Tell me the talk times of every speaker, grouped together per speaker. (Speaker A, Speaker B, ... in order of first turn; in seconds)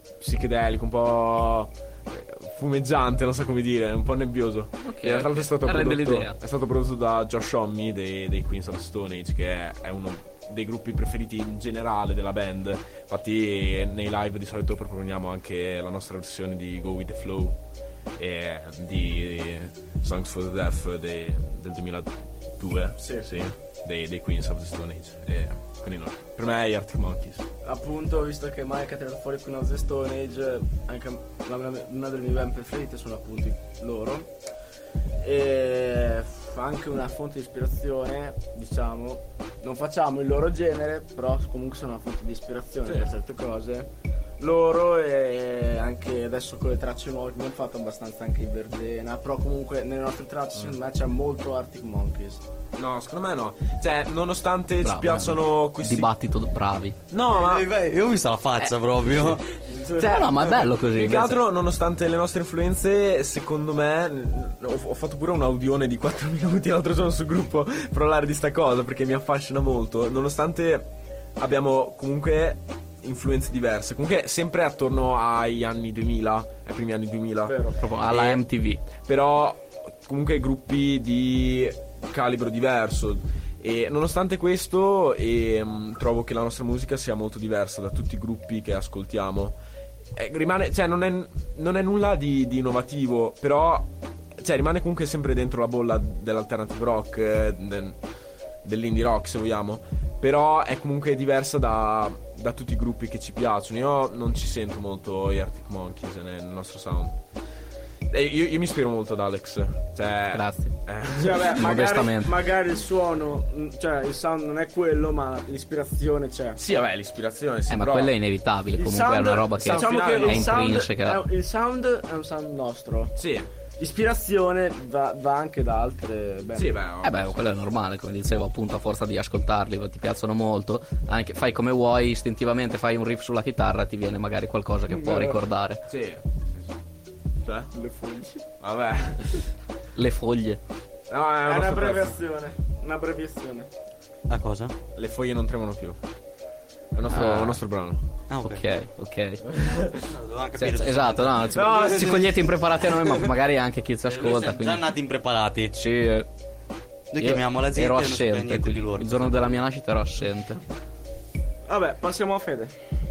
Speaker A: 0.2-17.6, 18.2-27.4, 42.9-43.1, 52.8-56.1, 57.1-57.7, 59.0-89.6, 90.1-98.0, 98.6-107.2, 108.1-111.6, 116.6-118.1, 119.6-120.7, 123.2-123.5, 126.5-127.4, 135.9-136.7, 137.4-137.7, 138.6-139.4, 141.1-142.2, 144.9-146.0, 146.9-148.0, 149.5-150.0, 151.6-152.2
Speaker B: 4.8-6.3, 54.8-57.0, 60.0-61.4, 77.8-78.8, 110.3-110.8, 111.5-112.3, 117.7-121.2, 127.0-135.8, 139.9-140.6, 147.1-147.6, 148.4-149.4, 150.6-154.9, 155.7-156.3, 157.2-160.6
Speaker C: 23.0-23.3, 27.6-34.3, 35.2-52.4, 77.5-77.8, 111.2-116.6, 118.8-123.1, 123.8-126.7, 134.9-135.4, 137.7-138.4, 141.4-143.7, 161.7-162.7
Speaker D: 57.3-59.4, 144.3-144.7, 148.3-148.6, 149.8-152.2, 154.0-155.7, 157.1-159.6